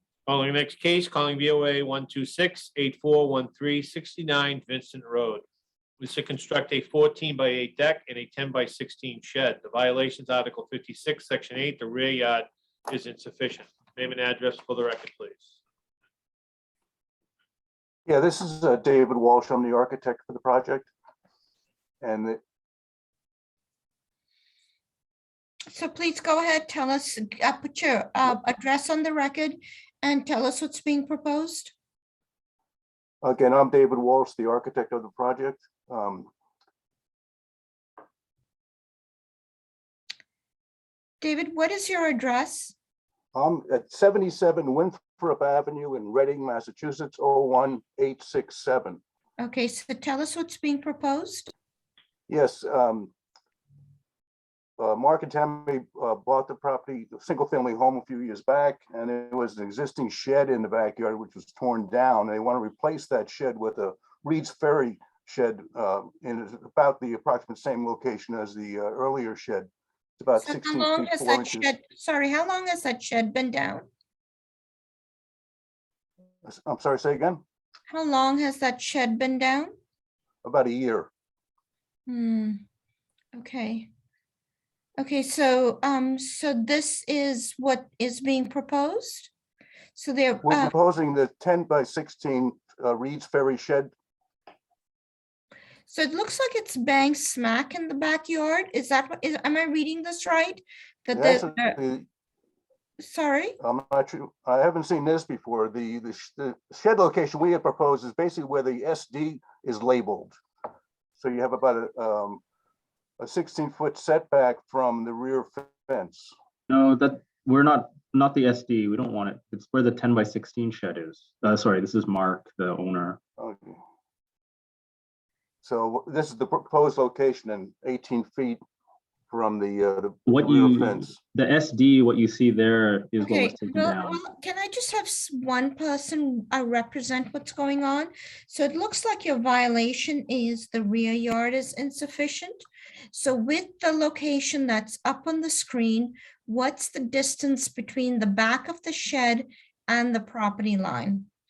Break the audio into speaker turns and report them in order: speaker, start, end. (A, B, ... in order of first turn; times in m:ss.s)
0:00.3-0:05.4 A
0:06.0-0:15.6 A
0:18.0-0:20.9 B
0:22.0-0:22.4 B
0:25.7-0:31.7 C
0:33.2-0:36.3 B
0:41.2-0:42.7 C
0:43.3-0:49.0 B
0:49.4-0:51.5 C
0:52.3-0:53.1 B
0:54.8-1:09.7 B
1:10.2-1:11.6 B
1:10.4-1:13.9 C
1:16.4-1:17.4 B
1:17.9-1:19.7 C
1:20.4-1:21.1 B
1:22.1-1:22.6 C
1:23.3-1:23.9 C
1:25.0-1:29.3 C
1:29.9-1:30.7 C
1:30.4-1:33.9 B
1:35.9-1:41.8 C
1:41.1-1:42.0 B
1:43.0-1:43.6 C
1:43.6-1:50.4 B
1:51.2-1:52.4 B
1:53.2-1:56.3 B
1:56.7-2:03.2 D
2:03.4-2:03.8 B
2:05.6-2:08.6 B
2:09.3-2:11.2 B
2:10.3-2:14.2 D
2:13.2-2:31.3 C